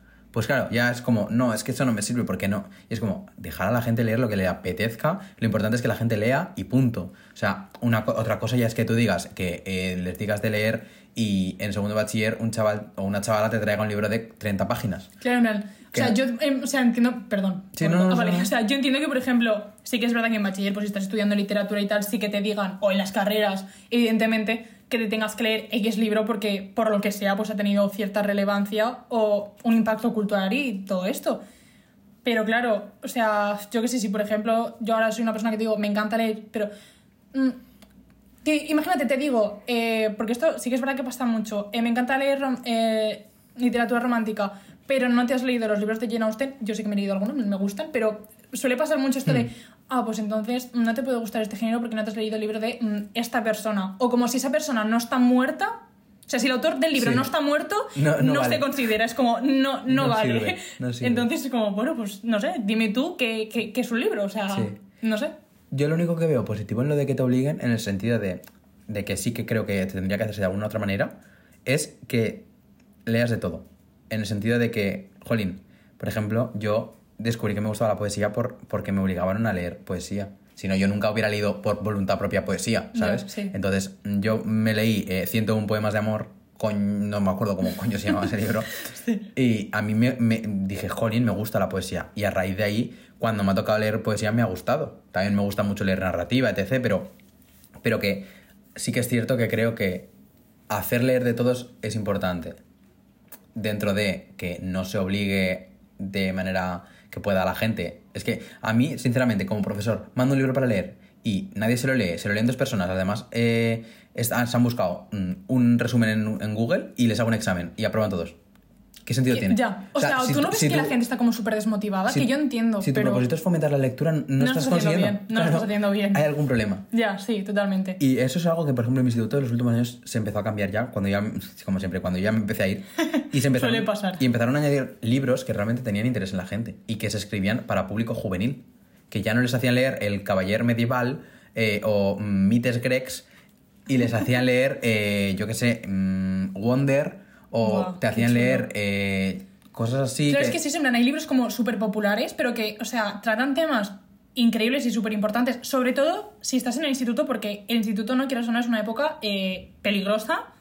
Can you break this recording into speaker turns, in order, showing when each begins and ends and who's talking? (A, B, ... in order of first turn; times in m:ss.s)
0:00.3-0:15.1 A
0:15.2-0:31.4 B
0:17.8-0:18.5 A
0:32.2-0:36.7 B
0:37.3-0:37.6 B
0:38.4-0:55.7 B
0:56.3-1:05.3 B
0:56.9-0:57.3 A
0:57.9-0:58.7 A
0:59.9-1:01.3 A
1:05.7-1:11.1 A
1:11.6-1:12.5 A
1:13.0-1:28.8 A
1:22.9-1:23.5 B
1:28.8-1:29.3 B
1:29.3-1:37.1 A
1:37.8-1:40.1 A
1:40.7-1:42.6 A
1:43.5-1:58.4 A
1:59.0-2:01.0 A
1:59.3-2:03.3 B
2:02.1-2:06.8 A
2:04.4-2:06.2 B
2:06.9-2:08.0 B
2:08.0-2:23.2 A
2:13.0-2:14.2 B
2:23.9-2:30.6 A
2:27.6-2:28.7 B
2:30.3-2:40.4 B